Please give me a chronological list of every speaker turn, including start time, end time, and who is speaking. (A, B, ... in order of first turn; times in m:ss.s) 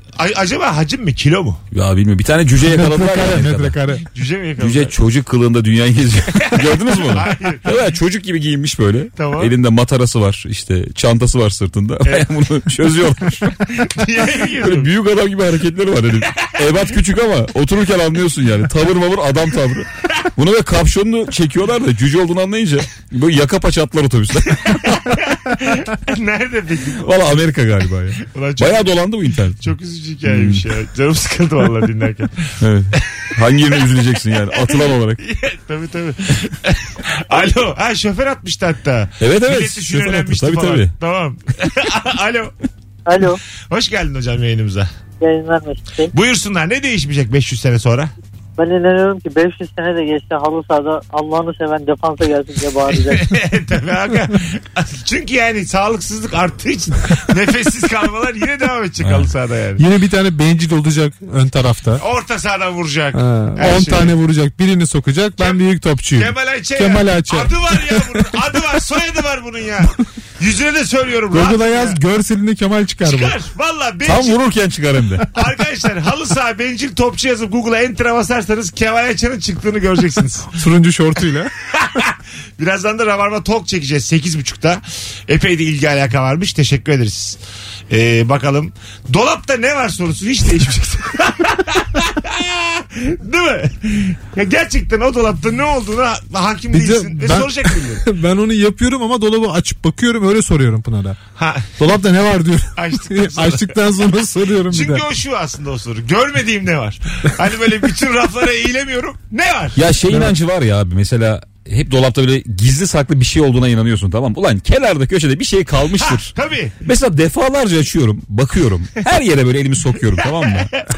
0:00.2-0:01.6 A
0:01.7-0:03.8 B
0:02.6-0:04.0 C
0:04.1-0:04.9 A
0:04.6-0:13.6 B
0:06.4-0:07.7 A
0:09.2-0:09.5 A
0:13.7-0:14.9 A
0:14.4-0:25.2 B
0:16.4-0:16.8 A
0:24.6-0:27.2 A
0:27.0-0:29.7 B
0:28.2-0:29.0 A
0:29.6-0:33.3 A
0:30.3-0:30.6 B
0:32.6-0:35.2 B
0:34.5-0:42.5 A
0:39.2-0:40.9 B
0:43.1-0:43.4 D
0:43.7-0:44.9 A
0:45.2-0:46.1 D
0:46.1-0:48.1 A
0:48.6-0:53.4 D
0:53.1-0:59.8 A
0:59.0-0:59.3 B
0:59.8-1:02.0 C
1:02.0-1:04.2 A
1:03.2-1:08.3 C
1:06.2-1:12.0 A
1:11.3-1:13.4 C
1:13.0-1:14.4 A
1:14.0-1:15.3 B
1:15.3-1:20.5 A
1:20.6-1:21.5 C
1:21.7-1:27.4 A
1:27.9-1:38.1 A
1:36.7-1:41.2 C
1:41.4-1:41.8 A
1:41.8-1:45.0 C
1:42.8-1:43.8 A
1:44.7-1:49.8 A
1:49.8-2:00.8 B
1:56.0-1:56.8 A